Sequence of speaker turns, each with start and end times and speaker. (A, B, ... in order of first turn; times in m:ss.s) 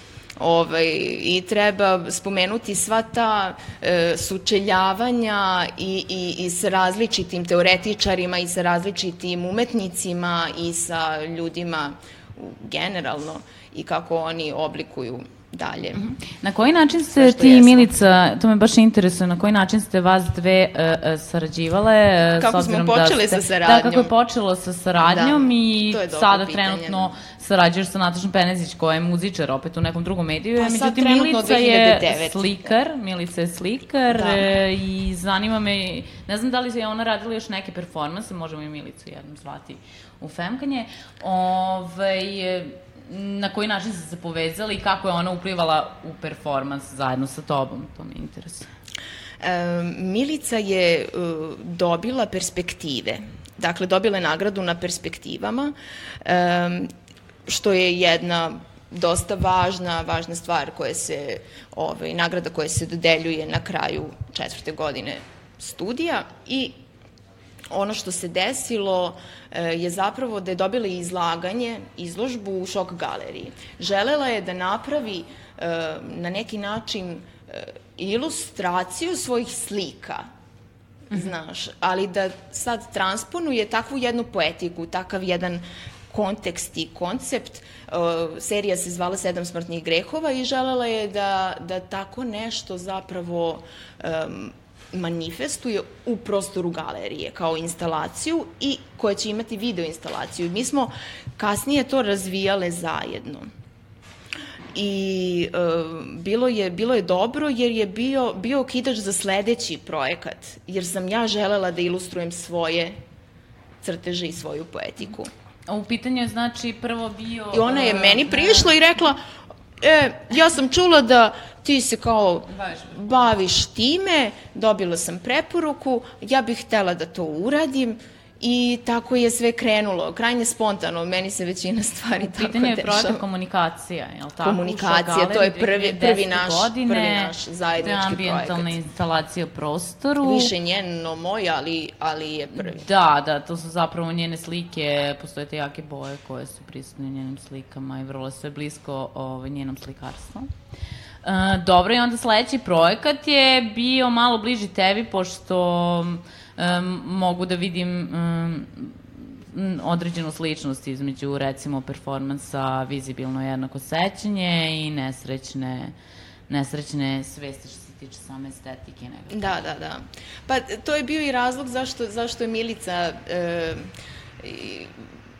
0:00.4-0:16.1 A
0:16.0-0:48.7 B
0:17.1-0:17.9 A
0:22.4-0:24.1 A
0:25.0-0:27.1 A
0:30.6-0:32.7 A
0:34.1-0:34.5 A
0:49.4-0:56.9 A
0:57.4-1:06.8 A
1:07.7-1:20.2 A
1:21.1-1:43.5 A
1:44.7-1:53.0 A
1:53.8-1:55.3 A
1:55.7-1:58.7 B
1:57.5-1:59.2 A
1:59.8-2:13.2 A
2:02.5-2:03.0 B
2:12.3-2:20.5 B
2:14.4-2:18.7 A
2:20.2-2:22.9 A
2:22.6-2:30.5 B
2:31.2-2:46.0 B
2:46.5-2:49.5 B
2:49.3-2:55.0 A